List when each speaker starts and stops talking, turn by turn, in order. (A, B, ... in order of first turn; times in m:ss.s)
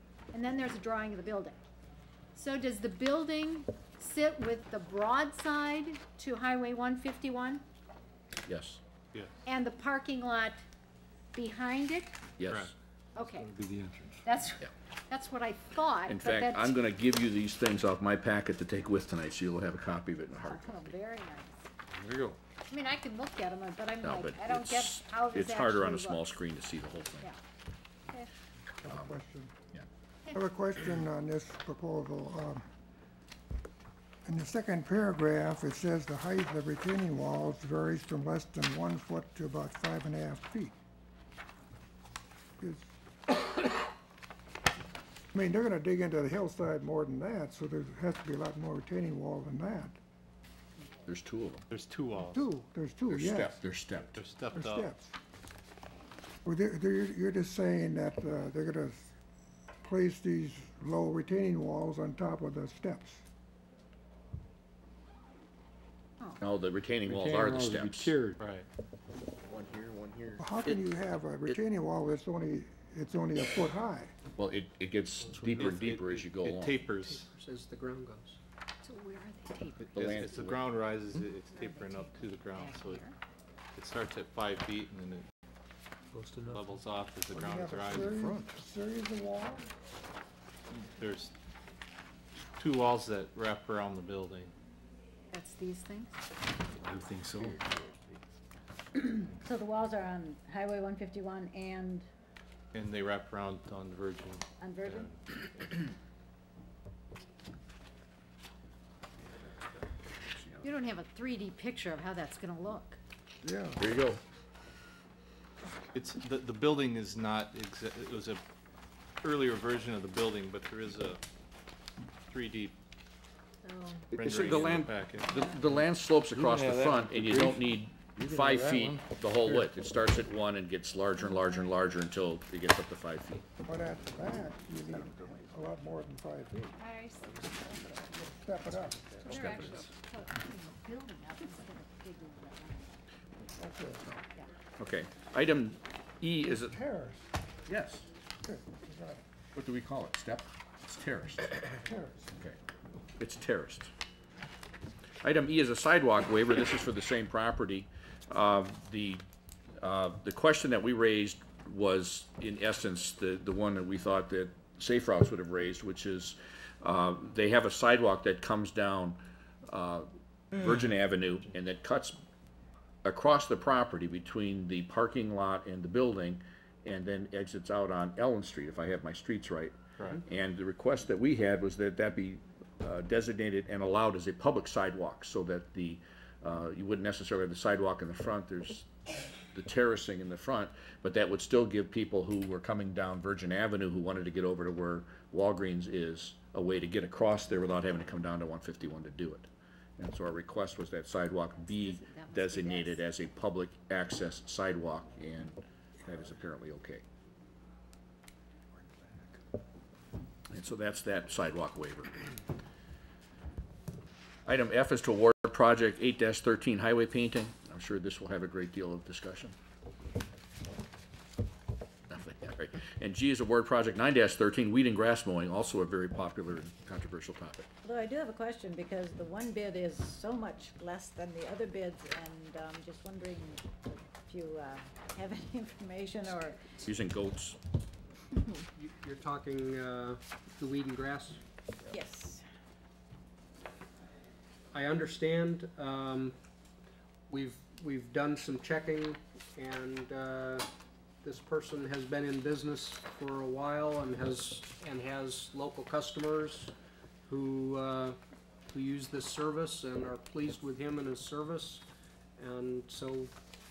0:00.3-0:01.6 A
0:02.3-0:07.6 A
0:08.5-0:08.8 B
0:09.4-0:10.6 A
0:11.3-0:12.2 A
0:12.4-0:12.7 B
0:12.5-0:12.7 C
0:13.1-0:13.5 A
0:13.4-0:14.2 D
0:14.2-0:16.8 A
0:16.1-0:20.6 B
0:20.4-0:21.7 A
0:22.7-0:26.3 A
0:24.0-0:27.2 B
0:28.8-0:29.5 E
0:30.3-0:32.6 E
0:34.2-0:40.7 E
0:42.6-0:42.9 E
0:45.3-0:50.0 E
0:51.1-0:51.6 B
0:51.7-0:52.4 C
0:52.2-0:53.6 E
0:53.1-0:54.2 B
0:54.1-0:54.9 C
0:54.5-0:55.1 E
0:56.4-0:59.1 E
0:59.8-1:03.2 E
1:06.4-1:08.1 B
1:07.0-1:08.4 D
1:08.4-1:08.7 C
1:10.4-1:14.1 E
1:14.4-1:16.7 B
1:15.6-1:17.3 C
1:17.1-1:18.4 F
1:18.8-1:19.9 A
1:19.8-1:23.0 C
1:20.0-1:20.5 B
1:21.5-1:23.1 A
1:23.7-1:25.3 C
1:26.1-1:26.6 F
1:26.5-1:28.1 C
1:27.3-1:29.7 E
1:30.7-1:31.3 C
1:32.6-1:34.5 C
1:35.3-1:36.1 A
1:36.9-1:37.6 D
1:38.9-1:42.0 G
1:42.7-1:45.1 C
1:44.6-1:45.1 G
1:50.3-1:50.6 B
1:50.6-1:53.0 A
1:53.4-1:53.8 E
1:53.8-1:54.2 B
1:55.9-1:58.4 C
1:59.2-2:01.2 C
2:02.3-2:02.8 C
2:03.7-2:04.0 A
2:04.1-2:05.4 C
2:04.1-2:13.4 B
2:06.3-2:09.7 D
2:11.2-2:11.8 A
2:13.6-2:16.8 E
2:16.8-2:18.0 A
2:18.0-2:19.4 E
2:19.2-2:22.9 A
2:19.3-2:19.8 B
2:23.6-2:24.0 E
2:24.8-2:26.7 B
2:26.6-2:27.2 E
2:27.7-2:28.1 B
2:28.4-2:29.2 E
2:29.5-2:31.6 B
2:31.8-2:32.3 E
2:33.2-2:33.9 B
2:35.2-2:39.2 B
2:39.8-2:52.2 B
2:53.0-3:08.9 B
3:09.5-3:19.5 B
3:20.0-3:27.0 B
3:21.5-3:23.0 A
3:30.5-3:32.1 B
3:34.4-3:39.5 B
3:42.1-3:47.7 B
3:47.8-3:56.7 G
3:56.8-3:57.6 B
3:58.8-4:01.4 F
4:01.9-4:02.4 G
4:04.7-4:06.3 F
4:07.3-4:10.6 F
4:11.2-4:16.7 F
4:17.3-4:18.2 F
4:18.7-4:21.8 F
4:22.4-4:23.3 F